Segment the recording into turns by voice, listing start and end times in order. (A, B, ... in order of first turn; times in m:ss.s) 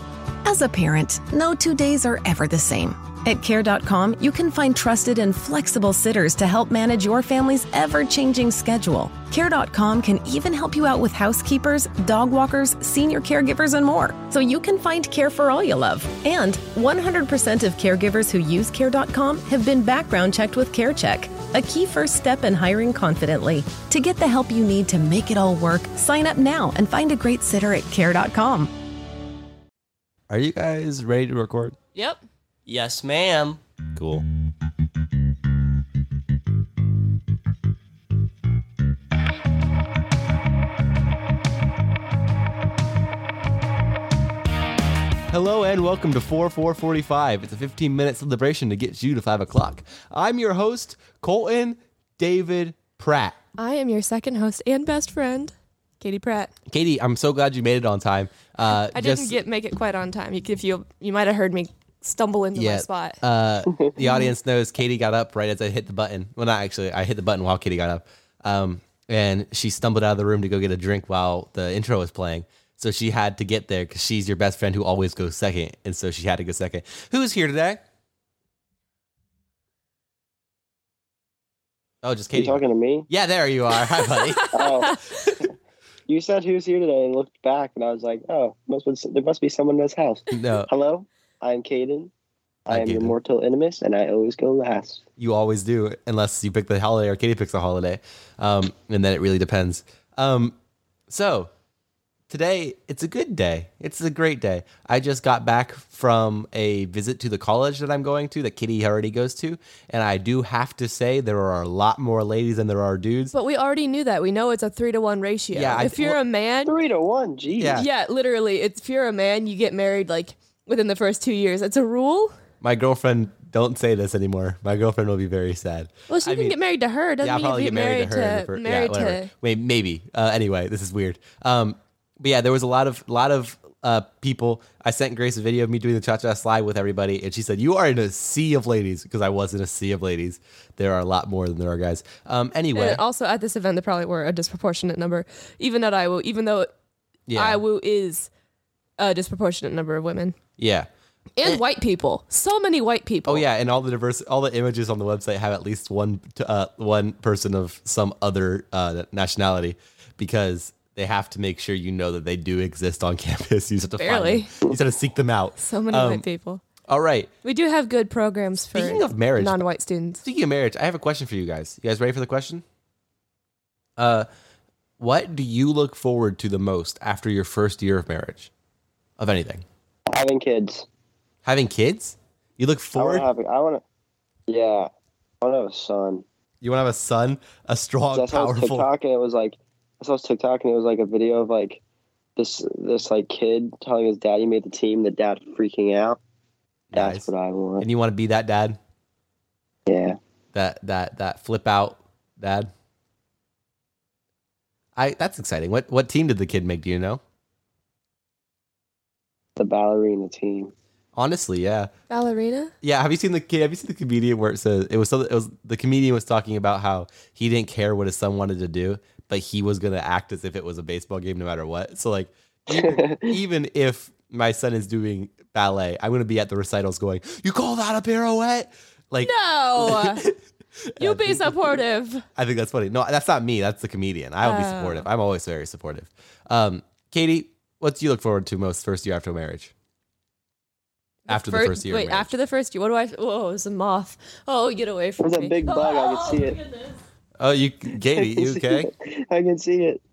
0:00.4-0:28.7 A
0:30.3-0:31.8 B
0:31.9-0:32.2 C
0:32.6-0:33.6 D
0:33.9-0:34.2 B
0:45.3-0:53.4 B
0:53.6-0:56.5 C
0:56.7-0:59.4 B
0:58.9-1:03.2 C
1:02.5-1:17.8 B
1:22.0-1:24.6 B
1:22.3-1:23.1 D
1:24.5-1:24.9 D
1:26.1-1:32.1 D
1:30.3-1:30.7 B
1:32.7-1:35.0 D
1:32.7-1:33.1 B
1:35.2-1:40.6 B
1:41.1-1:41.5 B
1:42.3-1:53.3 B
1:53.3-1:56.7 C
1:55.5-1:56.2 B
1:56.6-1:57.8 D
1:57.6-1:57.8 B
1:57.7-2:02.3 C
2:02.6-2:06.6 B
2:06.1-2:09.3 C
2:07.2-2:23.0 B
2:22.7-2:26.7 C
2:27.3-2:27.6 B
2:27.3-2:28.3 C
2:29.0-2:30.3 C
2:30.6-2:30.9 B
2:31.4-2:33.4 C
2:33.2-2:46.2 B
2:44.0-2:44.5 C
2:45.6-2:46.6 C
2:46.9-2:47.3 B
2:47.4-2:50.2 C
2:48.7-2:49.6 B
2:50.2-2:52.6 B
2:54.0-2:54.3 B
2:55.0-2:58.5 B
2:59.2-2:59.6 B
3:00.1-3:00.9 D
3:01.4-3:03.3 B
3:03.0-3:03.8 D
3:04.5-3:06.2 D
3:06.6-3:08.9 B
3:08.1-3:11.8 D
3:12.4-3:16.2 D
3:16.9-3:18.8 B
3:16.9-3:17.8 D
3:19.9-3:20.2 D
3:20.5-3:22.7 B
3:25.0-3:27.2 B
3:29.6-3:30.7 D
3:31.1-3:31.9 B
3:32.1-3:32.7 C
3:32.8-3:51.7 B
3:42.7-3:43.3 D
3:49.2-3:50.3 C
3:51.0-3:52.2 C
3:52.4-3:59.7 B
3:54.4-3:55.1 C
4:01.3-4:02.3 B
4:01.3-4:07.0 C
4:05.2-4:06.6 D
4:07.4-4:08.9 B
4:08.1-4:10.0 D